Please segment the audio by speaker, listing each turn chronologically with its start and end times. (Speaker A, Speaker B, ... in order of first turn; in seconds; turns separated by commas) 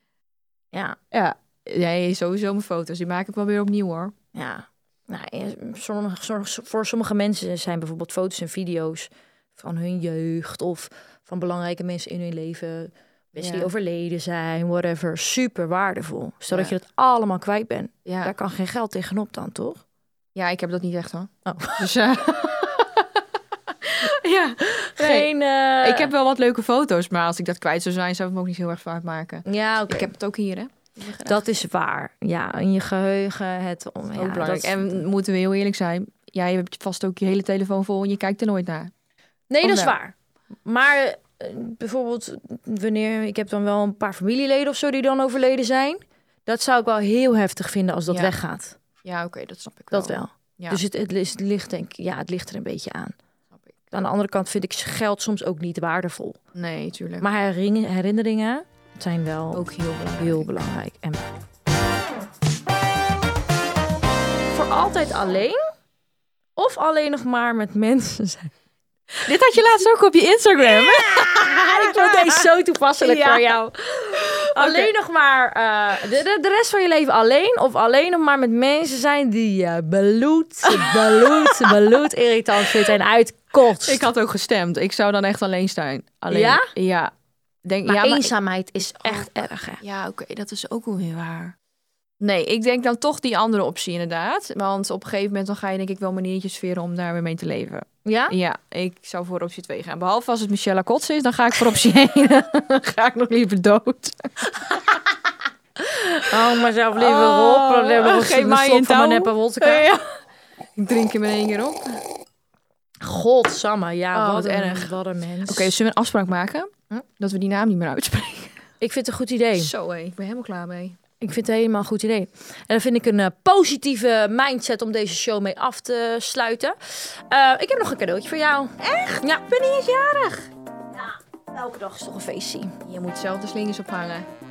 Speaker A: 0.7-1.0, Speaker B: 1.1-4.1, Speaker A: 4.3-19.8, Speaker B: 13.4-13.7, Speaker B: 16.5-16.7, Speaker B: 18.1-18.3, Speaker B: 20.4-31.4, Speaker A: 21.4-21.8, Speaker A: 24.9-26.1, Speaker A: 29.4-30.1, Speaker A: 31.2-35.0, Speaker B: 34.1-38.9, Speaker A: 39.5-40.1, Speaker B: 39.6-40.0, Speaker A: 40.6-48.8, Speaker B: 49.0-50.8, Speaker A: 49.9-53.1, Speaker A: 53.9-56.4, Speaker B: 56.5-57.2, Speaker A: 57.2-59.6, Speaker B: 59.5-60.6, Speaker A: 60.2-61.2, Speaker A: 64.5-65.7, Speaker A: 66.6-68.5, Speaker B: 69.2-72.5, Speaker A: 70.6-73.6, Speaker B: 73.0-74.9, Speaker A: 74.5-84.0, Speaker B: 80.7-82.0, Speaker B: 83.6-87.1, Speaker A: 86.3-86.7, Speaker B: 87.6-88.3, Speaker A: 87.9-89.8, Speaker B: 88.9-91.5, Speaker B: 92.2-105.1, Speaker A: 98.0-98.4, Speaker B: 105.8-106.4, Speaker A: 106.3-109.9, Speaker B: 107.0-110.1, Speaker B: 110.8-112.0, Speaker A: 113.0-115.7, Speaker B: 114.1-114.9, Speaker B: 115.5-118.6, Speaker A: 118.8-119.7, Speaker B: 119.6-121.0, Speaker A: 121.2-129.4, Speaker B: 128.8-130.5, Speaker A: 131.0-132.7, Speaker B: 132.8-134.3